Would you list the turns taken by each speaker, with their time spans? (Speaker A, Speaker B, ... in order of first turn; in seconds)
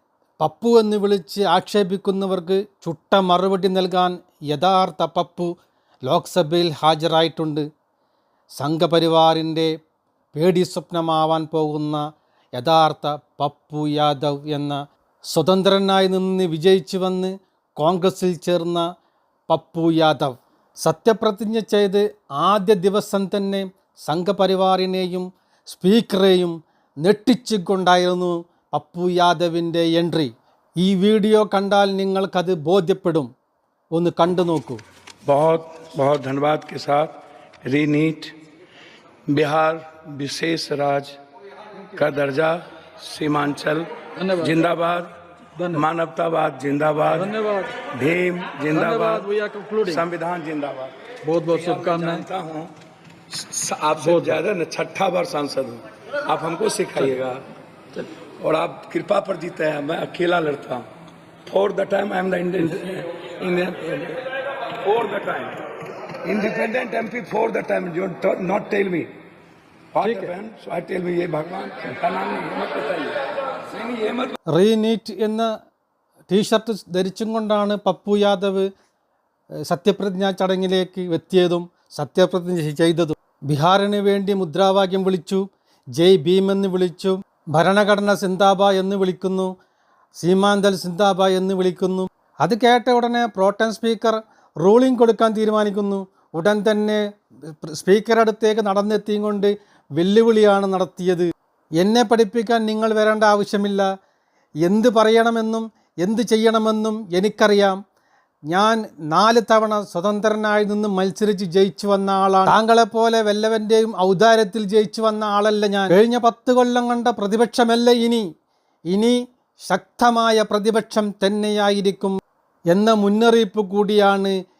Speaker A: 0.4-5.5, 6.1-7.7, 8.6-9.7, 10.3-12.0, 12.6-14.8, 15.3-18.8, 19.5-33.3, 33.9-34.8, 74.5-75.5, 76.3-78.7, 79.7-85.4, 86.0-89.5, 90.2-103.9, 104.7-107.8, 108.5-118.2, 118.9-119.2, 119.7-122.2, 122.7-124.3
Speaker B: 35.2-38.3, 39.3-41.1, 41.9-45.1, 45.7-47.3, 47.9-49.3, 49.9-52.7, 53.3-60.9, 61.5-64.2, 64.8-65.6, 66.2-69.1, 69.9-74.4
Speaker C: 44.2-44.6, 45.6-45.9, 47.1-47.8, 48.7-50.0, 51.2-52.3, 54.0-54.4, 70.0-70.3